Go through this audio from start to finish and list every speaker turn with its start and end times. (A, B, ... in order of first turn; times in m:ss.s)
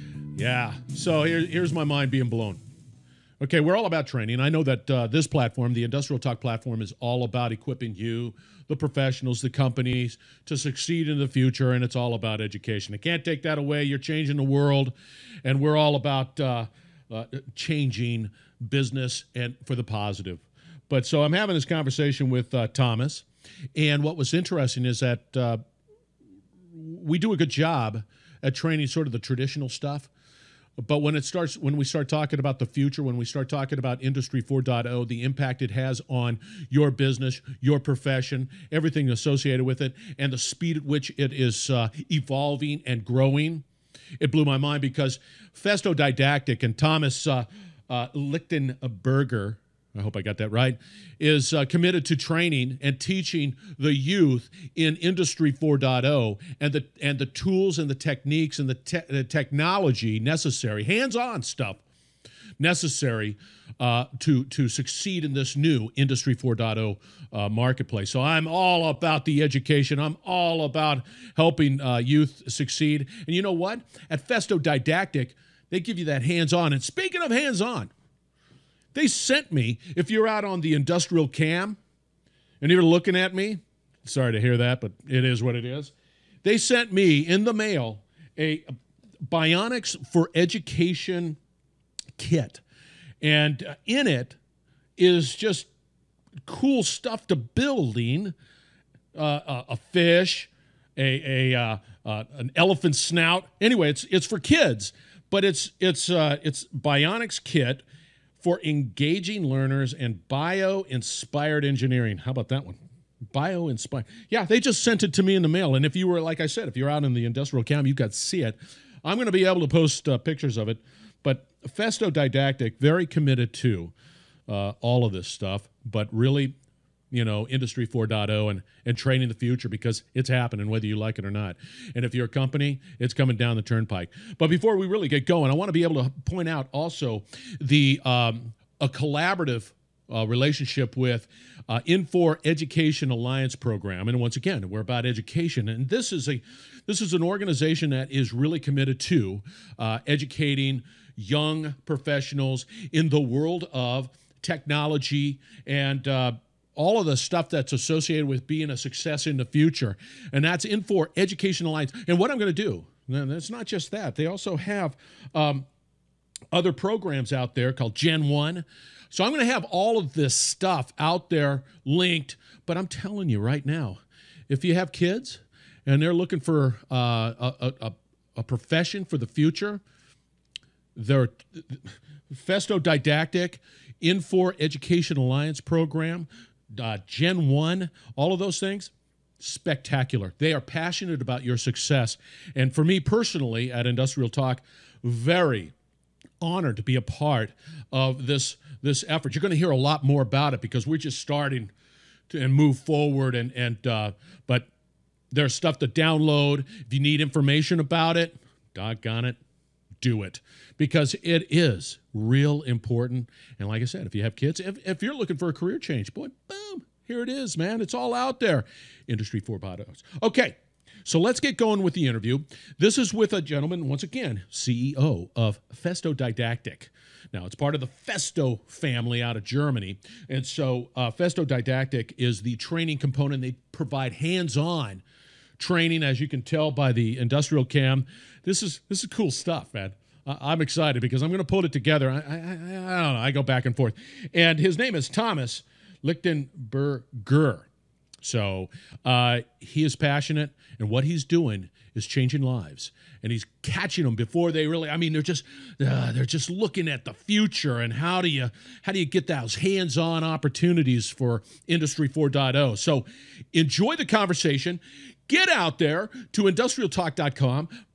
0:00.4-0:02.6 A
0:03.4-0:14.9 A
0:15.4-0:25.6 A
0:26.7-0:30.1 A
0:30.8-0:43.6 A
0:44.2-1:01.8 A
1:02.6-1:17.9 A
1:18.9-1:21.8 A
1:22.6-1:25.9 A
1:26.4-1:31.4 A
1:32.2-1:32.6 A
1:33.2-1:34.4 A
1:35.0-1:35.7 A
1:36.5-1:38.3 A
1:39.2-1:47.8 A
1:48.4-1:52.8 A
1:53.3-2:03.9 A
2:04.5-2:06.6 A
2:07.1-2:45.7 A
2:46.5-2:59.8 A
3:01.0-3:15.7 A
3:16.4-3:21.7 A
3:22.3-3:24.7 A
3:25.3-3:29.4 A
3:30.0-3:55.0 A
3:55.6-4:07.7 A
4:08.2-4:27.7 A